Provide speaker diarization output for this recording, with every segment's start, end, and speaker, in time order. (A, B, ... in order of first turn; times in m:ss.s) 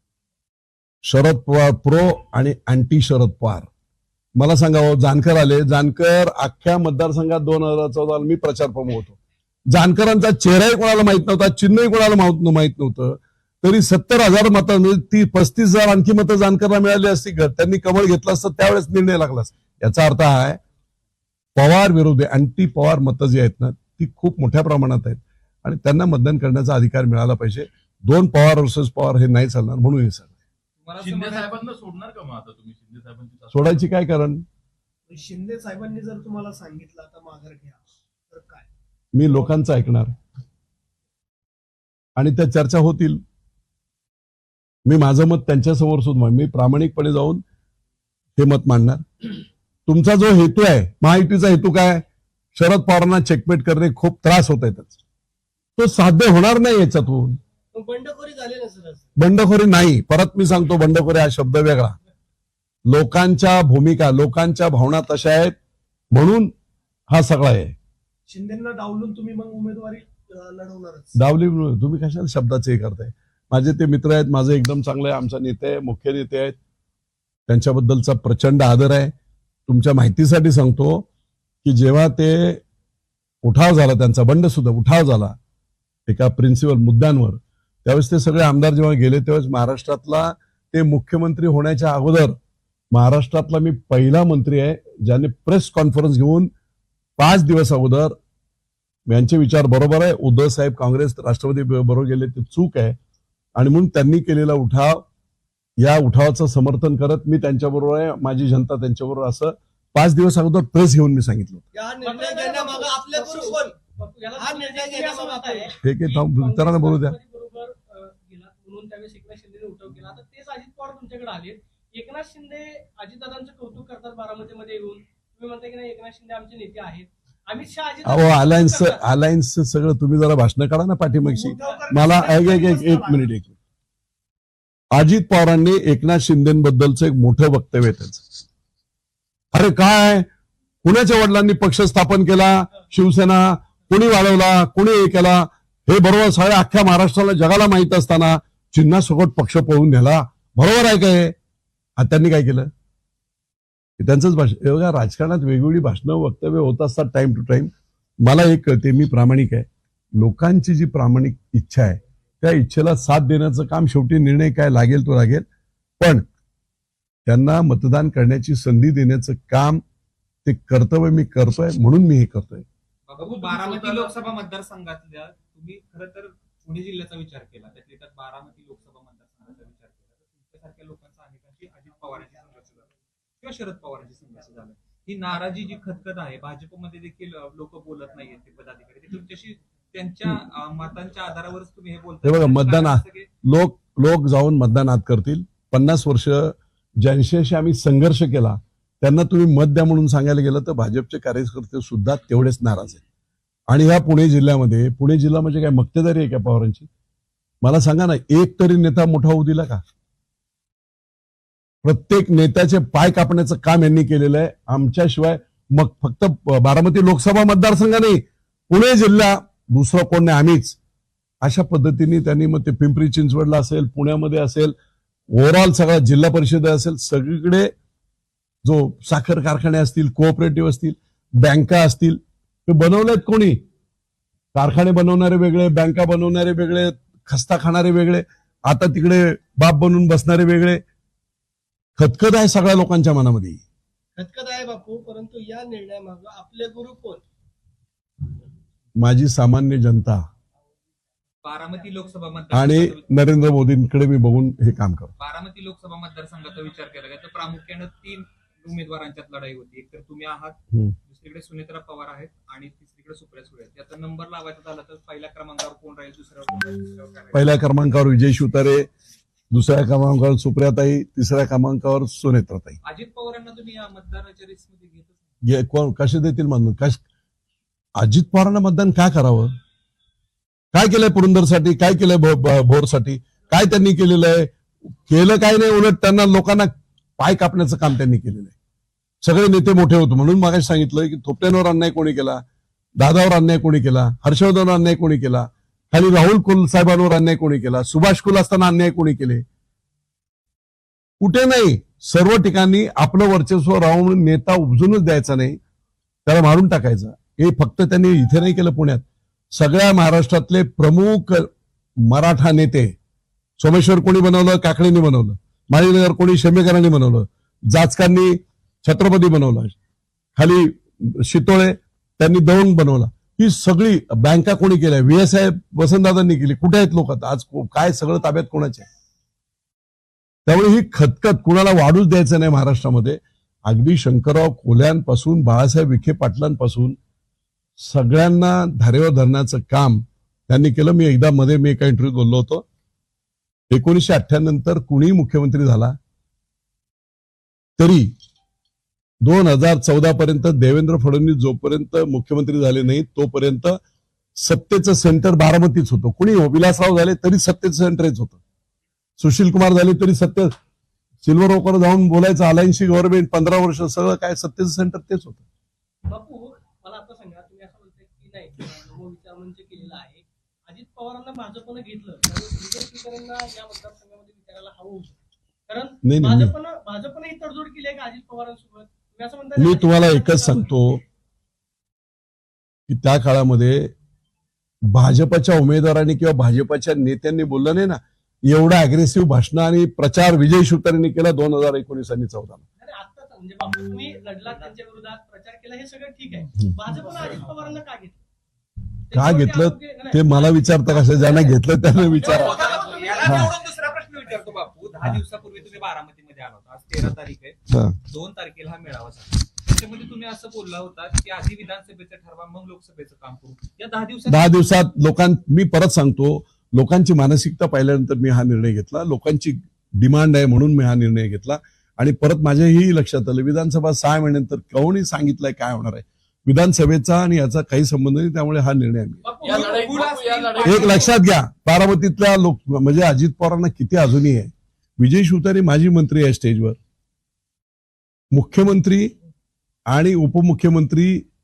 0:01.0-0:03.7 A
0:04.4-0:09.2 A
0:09.7-0:20.6 A
0:21.6-0:30.3 A
0:30.8-0:31.6 B
0:31.0-0:33.9 C
0:33.5-0:34.4 A
0:35.1-0:38.7 D
0:39.1-0:40.1 A
0:42.2-0:43.2 A
0:44.9-0:47.4 A
0:48.4-0:49.3 A
0:49.9-0:55.0 A
0:55.8-0:57.4 A
0:57.7-0:59.1 D
0:59.2-1:02.0 A
1:02.9-1:05.6 A
1:06.1-1:06.5 A
1:07.1-1:07.8 A
1:08.3-1:11.2 D
1:11.2-1:16.6 A
1:17.5-1:19.1 A
1:19.7-1:21.1 A
1:21.6-1:22.6 A
1:23.4-1:25.4 A
1:26.1-1:32.4 A
1:32.9-1:36.5 A
1:37.2-1:38.2 A
1:39.1-1:43.0 A
1:43.6-1:45.0 A
1:45.8-1:51.6 A
1:51.7-1:53.8 D
1:52.0-2:09.0 E
1:54.4-1:55.8 D
1:55.8-1:57.1 A
2:08.0-2:13.5 A
2:11.2-2:13.3 D
2:14.9-2:18.4 A
2:19.5-2:20.3 A
2:20.8-2:31.4 A
2:32.0-2:32.7 A
2:34.0-2:37.7 A
2:38.2-2:39.7 A
2:40.2-2:45.4 A
2:46.0-2:46.3 A
2:47.3-2:49.8 A
2:50.4-2:52.6 A
2:53.1-3:02.9 B
2:53.2-2:54.3 C
3:03.4-3:13.3 B
3:12.2-3:23.0 A
3:23.7-3:26.9 A
3:27.6-3:29.8 A
3:31.8-3:40.8 A
3:41.4-3:44.8 A
3:45.3-3:47.7 A
3:48.6-3:53.6 A
3:54.5-4:00.8 A
4:02.0-4:03.6 A
4:04.2-4:07.2 D
4:09.0-4:10.2 A
4:11.4-4:13.2 B
4:12.5-4:15.1 A
4:15.2-4:27.6 B
4:27.3-4:28.9 A
4:29.5-4:32.8 A
4:32.8-4:35.2 B
4:35.4-4:37.0 A
4:38.0-4:39.5 A
4:40.7-4:48.5 A
4:49.2-4:52.4 A
4:53.0-4:59.4 A
5:01.2-5:05.6 A
5:06.3-5:09.0 A
5:09.6-5:11.5 A
5:12.1-5:12.9 A
5:13.6-5:19.8 A
5:20.4-5:28.9 A
5:30.5-5:37.0 A
5:37.8-5:42.6 A
5:43.7-5:46.0 A
5:47.8-5:48.1 A
5:49.2-5:53.8 A
5:54.4-5:58.4 A
5:59.2-6:00.5 A
6:01.2-6:05.4 A
6:06.1-6:15.2 E
6:15.7-6:20.7 E
6:16.0-6:16.5 A
6:19.6-6:21.0 A
6:22.9-6:23.9 A
6:24.9-6:32.6 A
6:32.8-6:38.2 E
6:39.1-6:43.5 E
6:39.1-6:42.6 A
6:42.2-6:54.8 B
6:43.2-6:43.5 A
6:47.7-6:48.0 A
6:54.3-7:09.2 A
7:09.3-7:11.2 B
7:09.3-7:11.1 C
7:10.6-7:16.8 A
7:18.3-7:19.1 A
7:19.9-7:21.3 A